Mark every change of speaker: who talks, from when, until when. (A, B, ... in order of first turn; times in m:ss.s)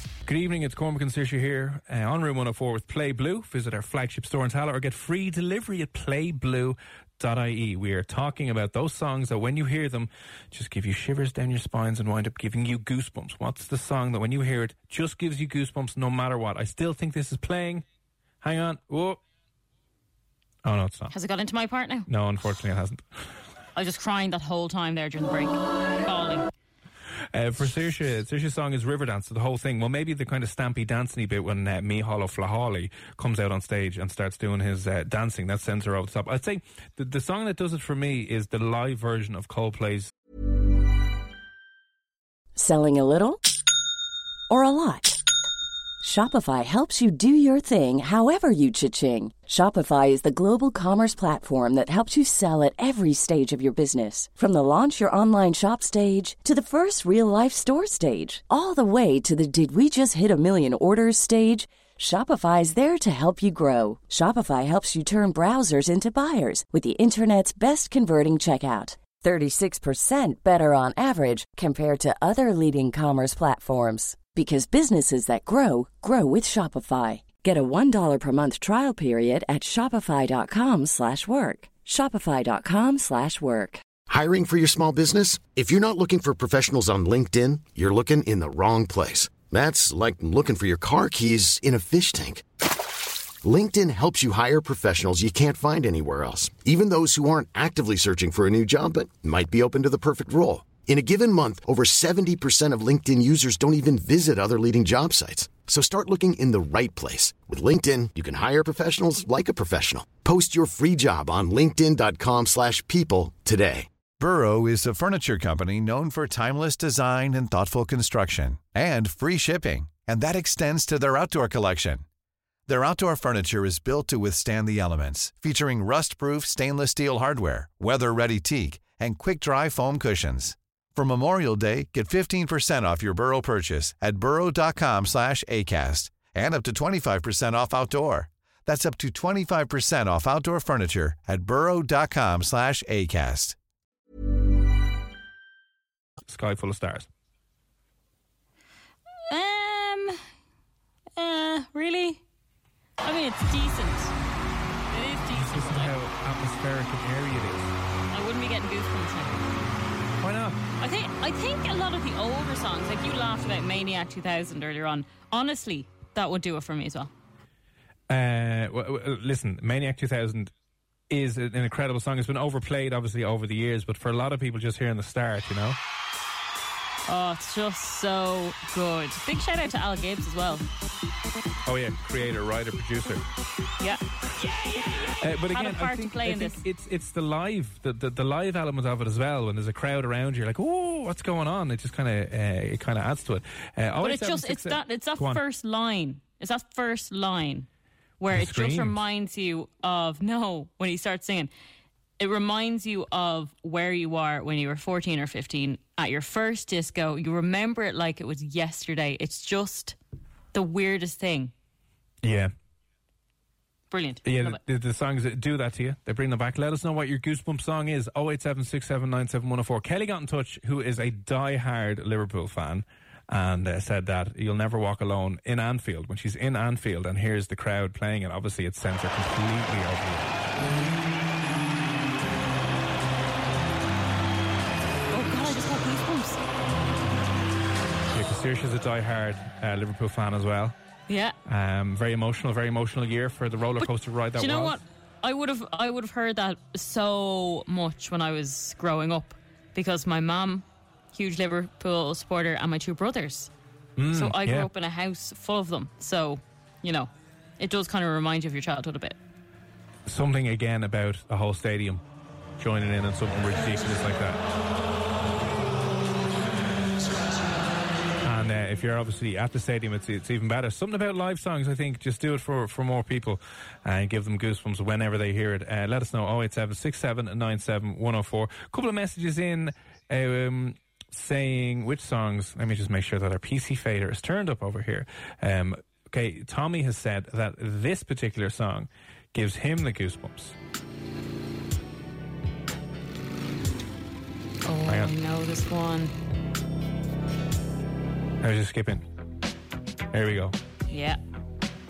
0:00.2-0:17.8 A
0:18.4-0:19.2 A
0:20.6-0:21.1 A
0:21.1-0:22.1 B
0:22.1-0:23.2 A
0:23.7-0:26.5 B
0:27.3-0:40.1 A
0:42.5-0:43.4 C
0:44.5-0:45.2 C
0:46.0-1:23.8 C
1:24.1-1:32.4 D
1:33.4-1:53.9 D
1:54.2-2:02.0 E
2:02.7-2:23.6 E
2:26.3-2:27.1 A
2:29.3-2:30.2 B
2:31.2-2:32.2 B
2:33.0-2:34.1 B
2:34.9-2:35.9 B
2:35.3-2:37.8 A
2:38.1-2:39.5 B
2:40.2-2:40.6 A
2:40.8-2:47.1 B
2:48.1-2:50.5 A
2:51.1-2:55.8 A
2:57.1-3:00.6 B
3:01.6-3:03.2 A
3:03.8-3:04.0 B
3:04.4-3:15.4 A
3:05.5-3:06.6 B
3:14.0-3:17.7 B
3:18.2-3:21.5 B
3:18.3-3:19.0 A
3:22.2-3:30.0 B
3:30.5-3:31.5 B
3:32.2-3:32.5 A
3:33.9-3:34.6 B
3:34.2-3:50.6 A
3:55.1-3:56.8 B
3:58.1-4:00.8 A
4:01.1-4:01.4 B
4:01.4-4:04.8 A
4:03.8-4:13.5 B
4:14.0-4:14.7 A
4:14.1-4:19.2 B
4:20.0-4:22.0 A
4:22.6-4:24.4 A
4:28.2-4:50.6 A
4:54.6-4:56.1 B
4:54.8-4:55.1 A
4:58.4-4:59.0 A
5:00.1-5:00.6 A
5:00.9-5:01.2 B